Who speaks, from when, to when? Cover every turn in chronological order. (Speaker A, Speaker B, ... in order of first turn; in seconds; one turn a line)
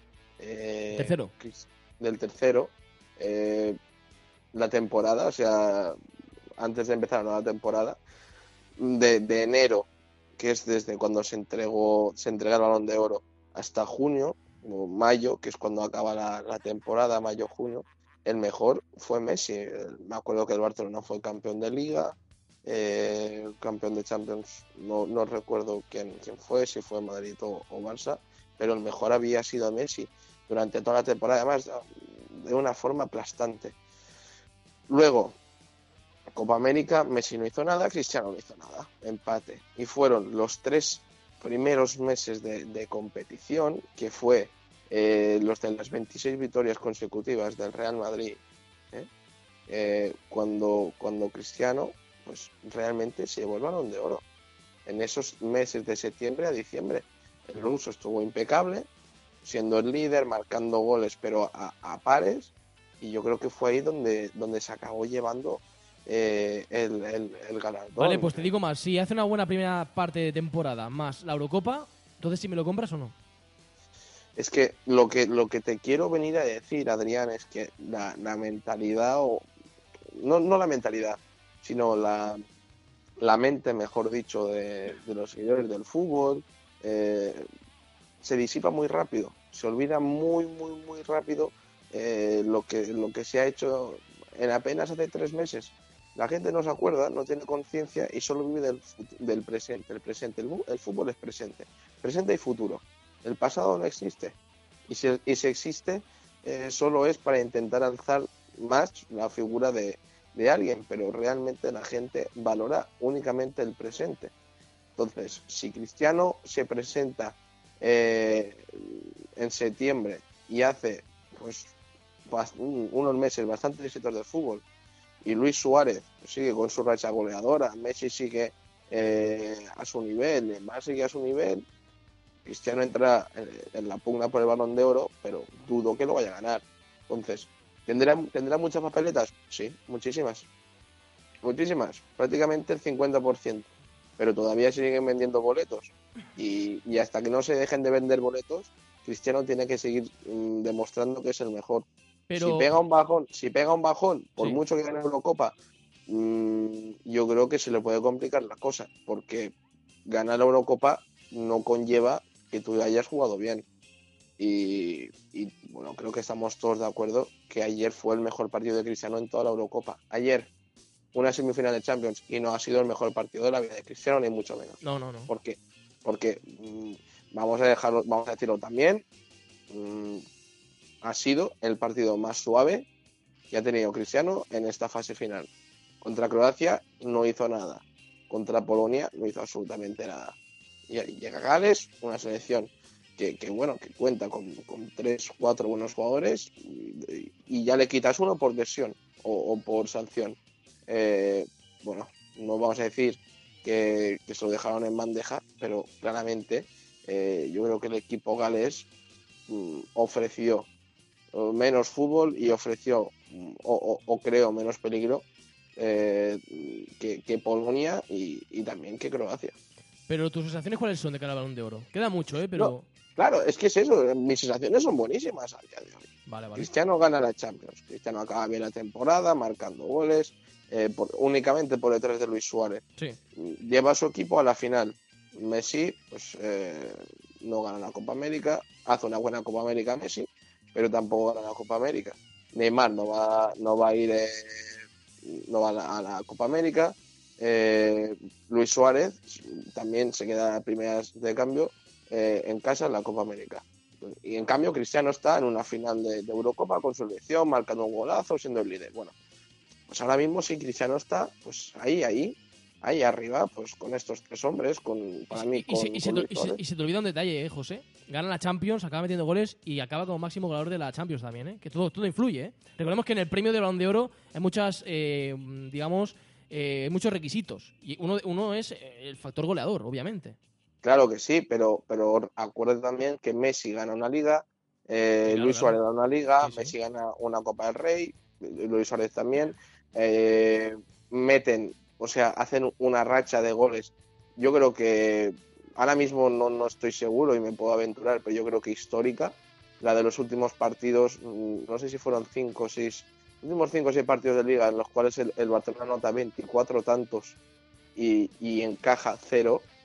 Speaker A: 0.4-3.8
Speaker B: 0.9-1.3
Speaker A: 4.5-6.0
Speaker A: 6.6-8.0
Speaker A: 8.8-33.8
Speaker A: 34.9-35.4
Speaker A: 36.3-48.4
Speaker A: 49.7-54.2
Speaker A: 54.9-58.9
Speaker A: 59.4-68.5
Speaker B: 68.0-73.1
Speaker A: 74.4-79.5
Speaker A: 80.1-82.4
Speaker A: 83.2-87.5
Speaker A: 88.2-114.3
Speaker A: 115.0-121.7
Speaker A: 122.3-124.7
Speaker A: 125.2-131.7
Speaker A: 132.4-140.5
Speaker A: 141.4-151.9
Speaker B: 152.3-152.7
Speaker A: 152.4-155.6
Speaker A: 156.1-159.6
Speaker A: 160.1-163.7
Speaker A: 164.4-170.5
Speaker A: 171.1-179.0
Speaker B: 174.8-175.3
Speaker A: 179.7-180.2
Speaker A: 181.0-182.9
Speaker A: 183.5-185.5
Speaker A: 186.0-190.4
Speaker A: 190.9-208.9
Speaker A: 209.5-210.7
Speaker A: 211.3-215.2
Speaker A: 215.8-219.6
Speaker B: 220.1-222.8
Speaker A: 222.5-232.8
Speaker B: 226.3-226.7
Speaker A: 233.4-259.1
Speaker A: 259.9-266.6
Speaker B: 265.3-280.4
Speaker A: 280.8-307.4
Speaker B: 285.3-285.8
Speaker B: 286.4-286.7
Speaker A: 307.9-309.7